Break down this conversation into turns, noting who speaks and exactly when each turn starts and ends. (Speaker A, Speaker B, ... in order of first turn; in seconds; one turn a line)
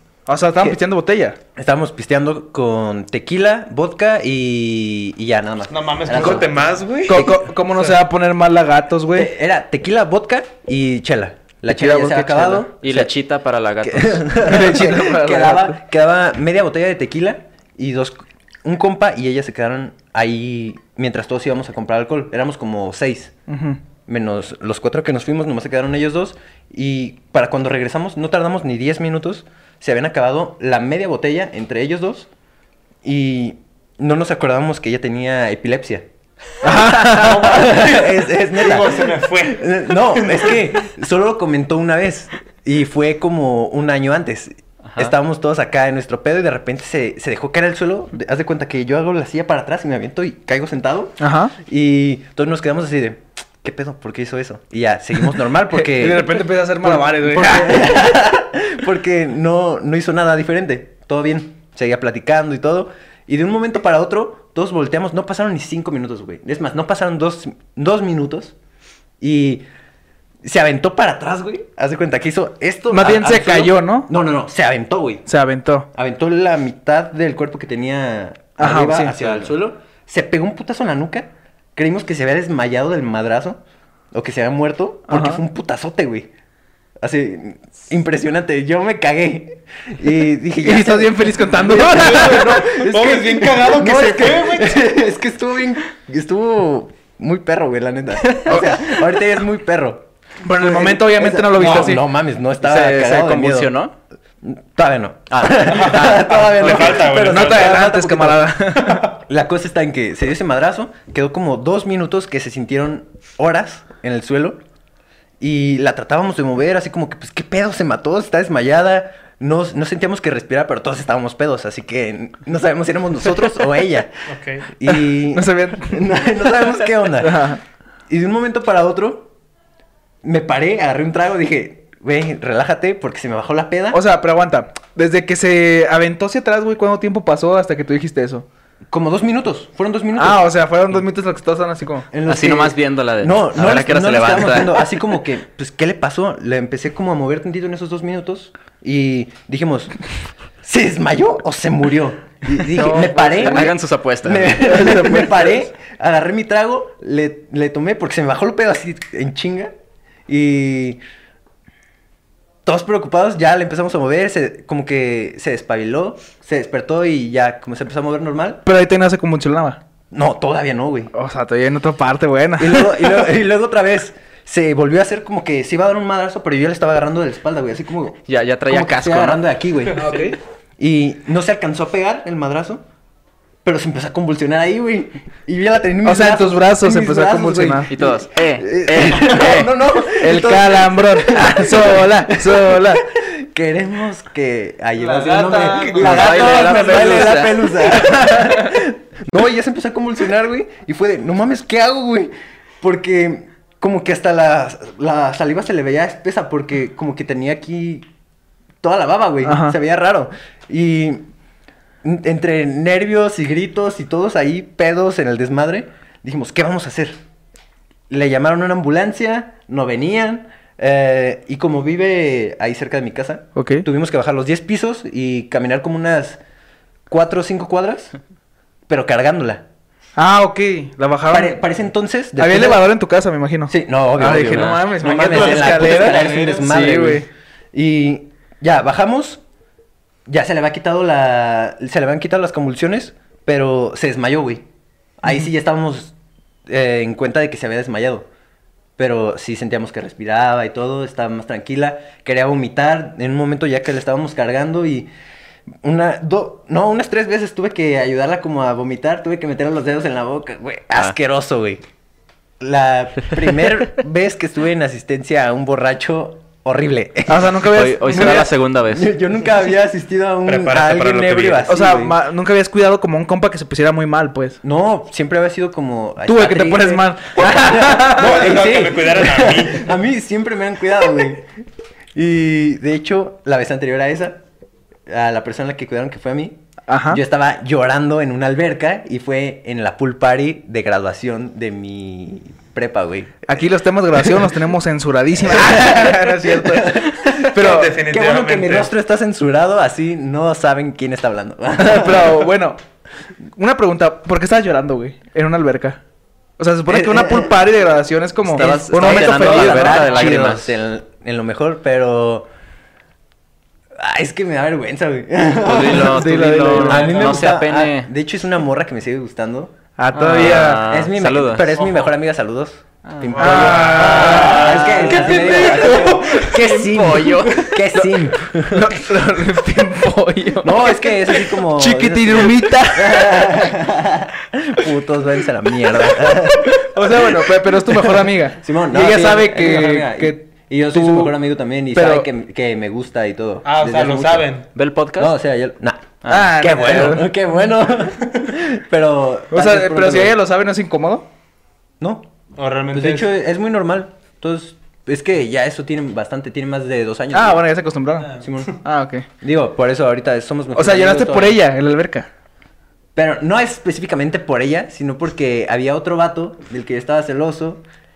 Speaker A: 0.3-1.4
Speaker B: 1.6-7.5
Speaker C: 5.7-8.0
Speaker A: 7.1-9.3
Speaker B: 9.1-13.1
Speaker A: 11.7-12.7
Speaker D: 12.8-14.3
Speaker B: 13.8-23.3
Speaker A: 14.4-15.8
Speaker A: 23.5-23.8
Speaker B: 24.1-32.3
Speaker B: 33.0-36.1
Speaker A: 36.6-37.6
Speaker B: 36.7-68.5
Speaker C: 37.0-40.7
Speaker A: 51.2-51.5
Speaker A: 55.8-58.0
Speaker B: 69.2-69.7
Speaker B: 70.4-75.3
Speaker A: 72.9-74.1
Speaker A: 75.3-75.9
Speaker B: 75.9-83.6
Speaker A: 78.6-79.2
Speaker D: 79.2-79.5
Speaker B: 84.1-86.3
Speaker A: 85.1-85.4
Speaker B: 87.0-103.7
Speaker A: 90.6-92.8
Speaker C: 91.8-94.8
Speaker D: 98.3-98.7
Speaker A: 100.4-102.0
Speaker C: 101.6-101.9
Speaker D: 102.6-103.9
Speaker B: 104.4-108.5
Speaker D: 105.4-106.9
Speaker C: 105.6-107.7
Speaker A: 107.1-109.1
Speaker B: 109.1-114.6
Speaker B: 115.4-127.5
Speaker C: 124.3-124.7
Speaker A: 125.3-126.3
Speaker A: 127.2-127.6
Speaker B: 128.1-129.3
Speaker B: 130.2-134.0
Speaker A: 133.9-138.4
Speaker B: 138.9-140.5
Speaker A: 140.2-142.1
Speaker B: 142.1-149.9
Speaker D: 142.3-144.9
Speaker B: 150.6-159.7
Speaker A: 152.7-153.7
Speaker D: 153.0-154.7
Speaker A: 154.6-155.7
Speaker B: 160.3-161.0
Speaker B: 162.7-168.6
Speaker A: 168.7-169.8
Speaker B: 170.1-171.1
Speaker A: 171.1-173.3
Speaker B: 172.6-180.0
Speaker D: 178.3-179.4
Speaker C: 179.9-180.2
Speaker A: 179.9-180.4
Speaker B: 180.8-182.8
Speaker B: 183.6-208.1
Speaker A: 186.0-187.9
Speaker D: 187.9-189.7
Speaker A: 190.1-193.1
Speaker C: 195.0-197.3
Speaker D: 195.9-197.8
Speaker A: 196.0-197.4
Speaker A: 198.0-198.7
Speaker B: 208.8-211.3
Speaker A: 209.4-209.8
Speaker B: 212.0-217.2
Speaker B: 218.1-226.4
Speaker A: 223.6-223.8
Speaker B: 227.1-228.1
Speaker B: 228.9-229.6
Speaker A: 230.2-231.6
Speaker B: 231.3-232.9
Speaker A: 232.3-237.3
Speaker B: 233.7-239.4
Speaker D: 234.3-234.8
Speaker C: 235.0-236.8
Speaker B: 240.3-244.6
Speaker B: 245.2-246.1
Speaker B: 246.7-248.3
Speaker B: 249.0-255.1
Speaker B: 255.8-261.8
Speaker B: 262.6-272.2
Speaker A: 267.3-268.5
Speaker D: 267.7-269.1
Speaker C: 270.4-271.8
Speaker A: 271.7-274.6
Speaker B: 274.6-281.5
Speaker A: 276.2-278.5
Speaker C: 278.1-279.9
Speaker B: 282.1-284.4
Speaker B: 285.1-286.6
Speaker A: 286.9-287.2
Speaker B: 287.1-293.6
Speaker A: 293.5-298.0
Speaker B: 295.4-302.5
Speaker C: 297.5-298.9
Speaker A: 301.8-302.8
Speaker A: 303.6-306.0
Speaker A: 306.6-310.1
Speaker B: 306.9-307.6
Speaker B: 308.5-312.5
Speaker D: 308.5-310.7
Speaker B: 314.0-319.7
Speaker D: 315.6-318.1
Speaker A: 315.8-317.1
Speaker C: 316.9-317.5
Speaker A: 320.0-320.9
Speaker D: 320.1-321.8
Speaker B: 320.3-328.9
Speaker C: 321.8-322.1
Speaker D: 323.1-323.8
Speaker C: 323.3-326.4
Speaker A: 323.4-326.4
Speaker D: 326.4-327.8
Speaker A: 327.9-333.7
Speaker B: 330.6-344.5
Speaker A: 336.2-341.4
Speaker A: 341.9-342.3
Speaker C: 343.6-344.7
Speaker D: 344.8-345.3
Speaker B: 345.2-350.4
Speaker D: 346.2-347.2
Speaker A: 346.3-347.3
Speaker A: 349.5-351.3
Speaker B: 352.0-352.3
Speaker C: 352.6-353.3
Speaker B: 352.9-357.7
Speaker A: 357.3-359.3
Speaker B: 358.3-358.8
Speaker B: 359.4-361.6
Speaker A: 360.8-362.3
Speaker B: 363.2-367.8